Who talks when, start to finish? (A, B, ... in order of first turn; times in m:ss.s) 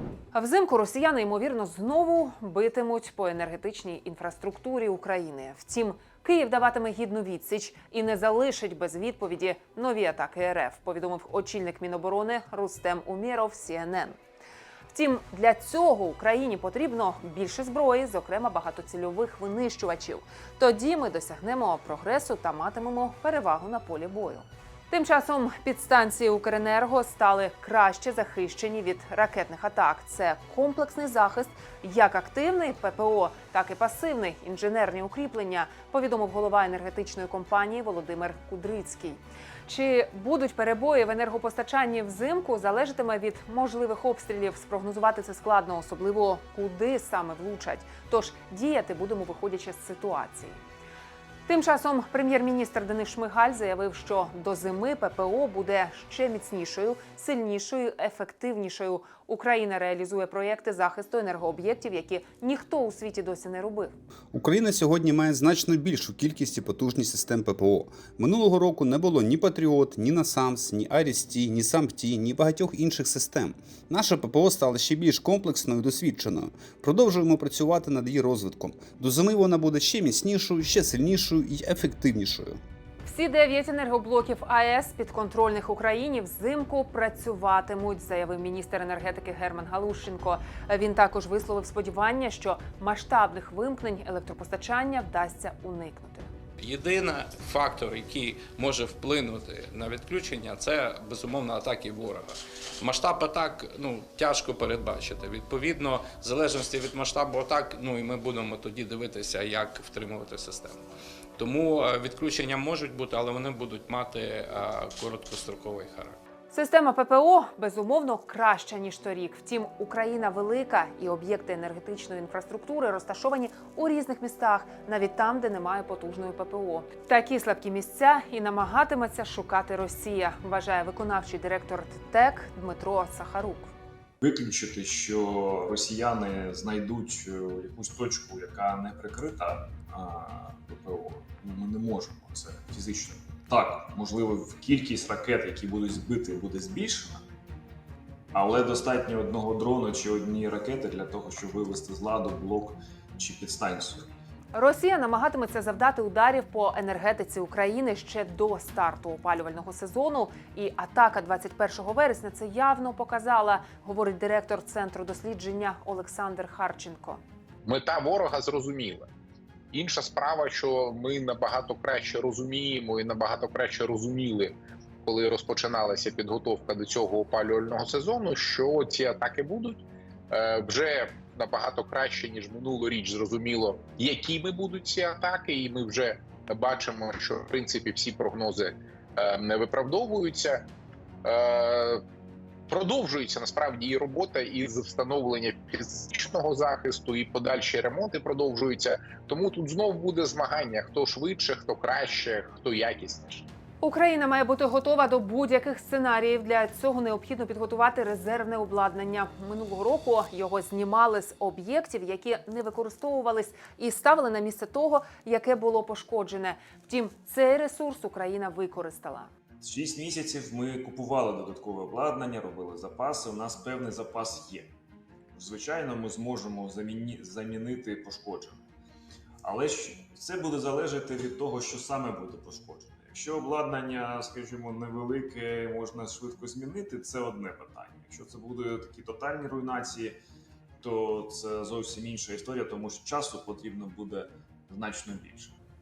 0:00.3-0:14.2 A
0:14.9-0:50.6 A
0:51.5-1:03.9 A
1:04.3-1:22.6 B
1:23.0-1:36.3 A
1:36.6-1:50.8 C
1:51.4-1:56.2 C
1:56.5-2:13.7 A
2:14.2-2:27.2 D
2:28.3-2:34.1 D
2:34.5-2:47.2 A
2:47.7-2:49.1 E
2:49.7-3:10.7 E
3:11.2-3:12.0 E
3:12.7-3:23.4 E
3:23.8-3:39.3 A
3:39.6-3:44.7 D
3:45.3-3:48.6 D
3:49.4-4:00.2 D
4:00.8-4:05.6 D